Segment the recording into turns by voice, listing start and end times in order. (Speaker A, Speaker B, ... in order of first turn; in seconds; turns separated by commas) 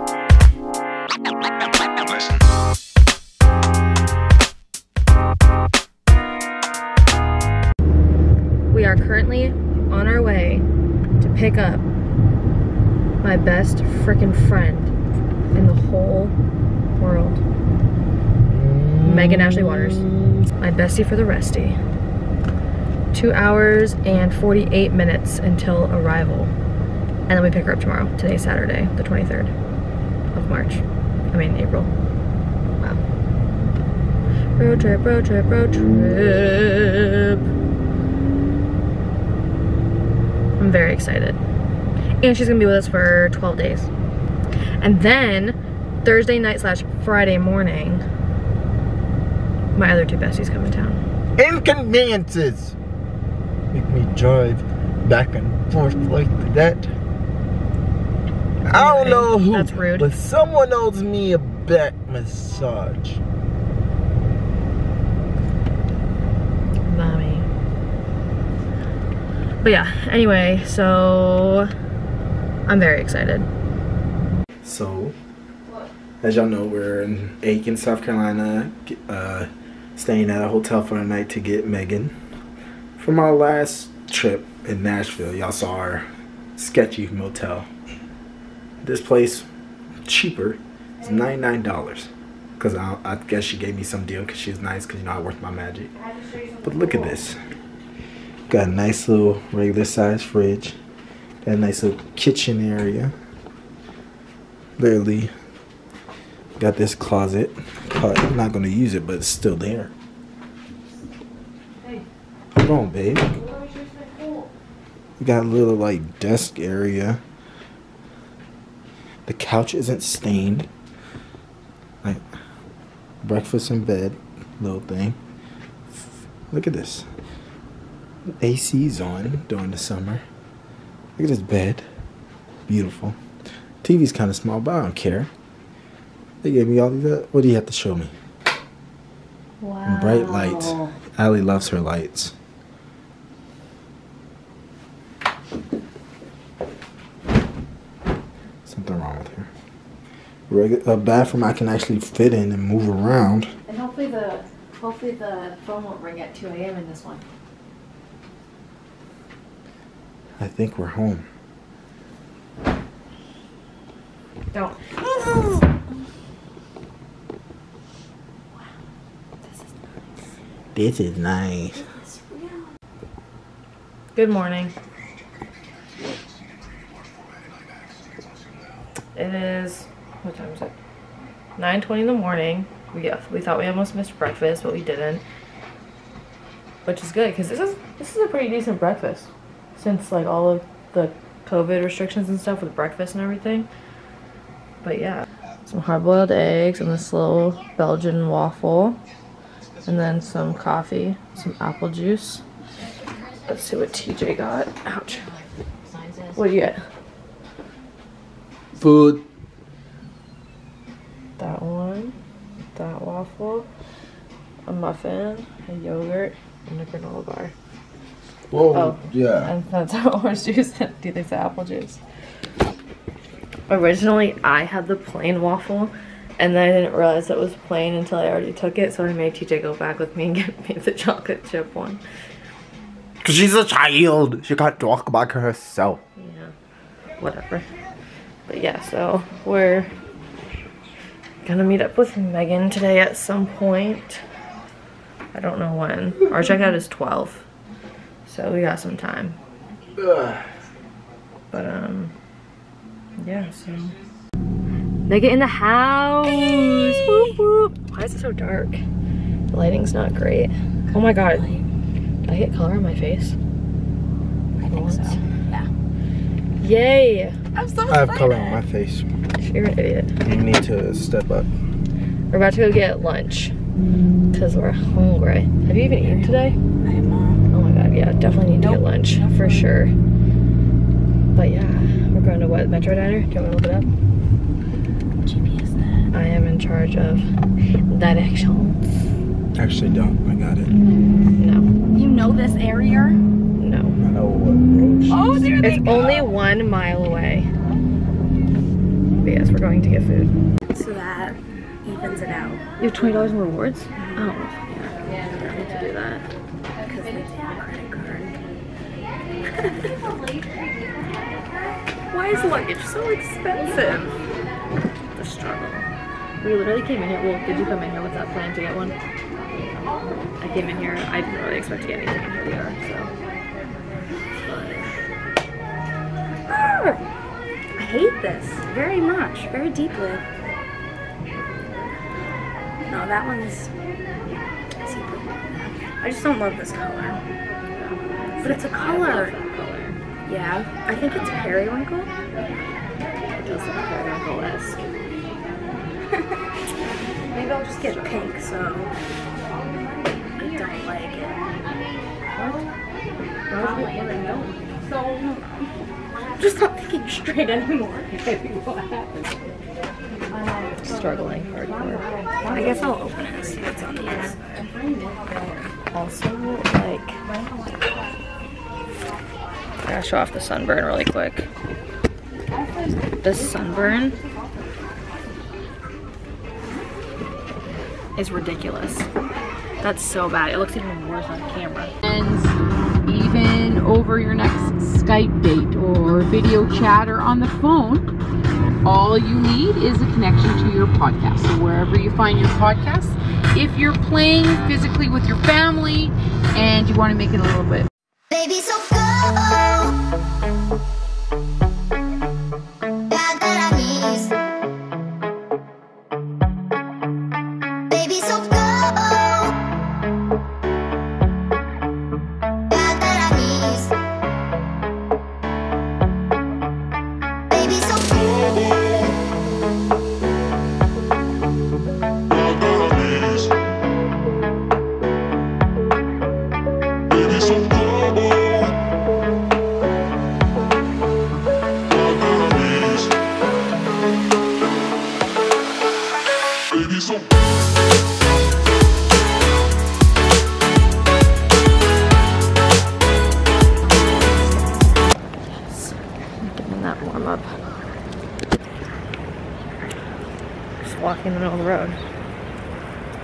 Speaker A: 8.7-10.7, Speaker A: 11.2-11.8, Speaker A: 13.2-14.9, Speaker A: 15.5-16.4, Speaker A: 16.9-17.4, Speaker B: 18.5-20.1, Speaker A: 19.0-20.1, Speaker A: 20.6-21.8, Speaker A: 23.1-26.5, Speaker A: 27.3-29.5, Speaker A: 30.3-31.9, Speaker A: 34.6-37.4, Speaker A: 40.6-41.4, Speaker A: 42.2-43.9, Speaker A: 44.8-48.0, Speaker A: 49.7-51.0, Speaker B: 51.4-52.7, Speaker B: 53.7-56.9, Speaker B: 58.6-63.2, Speaker A: 58.7-60.1, Speaker A: 66.9-67.5, Speaker A: 69.6-71.7, Speaker A: 72.7-73.5, Speaker B: 74.6-75.1, Speaker B: 76.2-82.1, Speaker B: 83.0-87.7, Speaker B: 88.8-89.5, Speaker B: 90.0-95.9, Speaker A: 95.9-97.2, Speaker B: 96.6-97.4, Speaker B: 98.5-100.8, Speaker B: 101.4-103.1, Speaker B: 104.8-105.3, Speaker B: 106.6-109.9, Speaker A: 111.8-112.0, Speaker B: 112.5-113.3, Speaker A: 113.3-114.5, Speaker B: 115.2-117.2, Speaker B: 119.3-120.7, Speaker B: 123.2-125.2, Speaker B: 125.9-127.1, Speaker B: 128.4-130.2, Speaker B: 131.2-131.8, Speaker B: 132.7-133.2, Speaker B: 133.8-135.3, Speaker B: 136.4-138.1, Speaker A: 139.6-140.9, Speaker B: 139.8-142.3, Speaker B: 148.7-149.5, Speaker B: 150.5-153.5, Speaker A: 153.7-157.2, Speaker B: 160.4-161.2, Speaker A: 164.5-165.6, Speaker B: 170.7-171.8, Speaker C: 171.8-172.7, Speaker A: 174.1-174.7, Speaker A: 179.1-180.7, Speaker A: 181.6-185.2, Speaker A: 186.8-193.7, Speaker A: 194.8-199.0, Speaker A: 199.8-202.4, Speaker A: 203.5-205.3, Speaker A: 206.3-206.8, Speaker B: 208.8-209.2, Speaker A: 211.4-212.2, Speaker A: 212.7-213.7, Speaker A: 214.7-217.5, Speaker B: 218.5-219.5, Speaker A: 218.7-222.0, Speaker A: 223.7-232.0, Speaker B: 233.2-236.0, Speaker A: 236.2-236.5, Speaker A: 237.2-237.7, Speaker A: 238.5-239.9, Speaker A: 241.4-244.2, Speaker A: 245.3-247.4, Speaker A: 248.2-249.4, Speaker B: 249.9-250.4, Speaker A: 251.5-252.1, Speaker A: 253.2-253.9, Speaker A: 255.1-258.8, Speaker C: 256.5-257.3, Speaker A: 259.5-261.5, Speaker C: 261.4-261.6, Speaker A: 262.2-263.4, Speaker C: 264.6-265.7, Speaker A: 264.7-265.2, Speaker A: 266.6-267.4, Speaker C: 267.5-268.6, Speaker B: 267.9-269.1, Speaker A: 269.4-270.1, Speaker B: 270.2-271.5, Speaker A: 272.3-273.5, Speaker A: 274.3-276.6, Speaker C: 276.8-277.4, Speaker A: 277.5-279.9, Speaker C: 278.6-279.6, Speaker A: 281.3-283.9, Speaker C: 285.2-286.1, Speaker A: 286.1-287.2, Speaker A: 287.9-288.8, Speaker B: 289.5-290.7, Speaker A: 291.4-291.7, Speaker C: 291.9-293.2, Speaker A: 293.6-294.0, Speaker B: 294.0-295.2, Speaker C: 295.1-295.9, Speaker D: 295.2-296.2, Speaker A: 295.6-297.5, Speaker A: 299.2-300.3, Speaker C: 300.7-302.6, Speaker A: 302.8-306.2, Speaker C: 304.0-305.8, Speaker C: 306.8-308.4, Speaker C: 309.6-309.9, Speaker A: 312.1-314.1, Speaker A: 315.1-315.9, Speaker A: 316.4-318.9, Speaker A: 320.4-323.1, Speaker A: 324.4-324.9, Speaker C: 326.5-327.0, Speaker C: 327.8-330.2, Speaker C: 332.9-333.7, Speaker C: 334.8-337.2, Speaker A: 337.8-340.0, Speaker C: 338.4-339.3, Speaker C: 340.3-342.1, Speaker A: 343.4-344.8, Speaker C: 346.1-346.4, Speaker A: 347.3-348.3, Speaker C: 347.8-348.9, Speaker C: 350.4-351.7, Speaker A: 352.4-352.6, Speaker C: 353.5-355.7, Speaker A: 353.5-354.4, Speaker C: 356.4-359.6, Speaker A: 360.8-364.6, Speaker C: 362.2-365.7, Speaker A: 365.9-367.2, Speaker C: 367.3-367.7, Speaker A: 369.8-371.5, Speaker C: 372.5-374.5, Speaker A: 373.2-374.2, Speaker A: 378.1-379.1, Speaker A: 379.8-381.9, Speaker D: 382.0-388.1, Speaker D: 388.8-397.9, Speaker E: 398.3-399.9, Speaker E: 403.1-404.3, Speaker E: 407.9-409.5, Speaker E: 412.7-413.9, Speaker E: 417.5-418.9, Speaker A: 445.6-445.9, Speaker A: 446.4-447.6, Speaker A: 450.8-452.0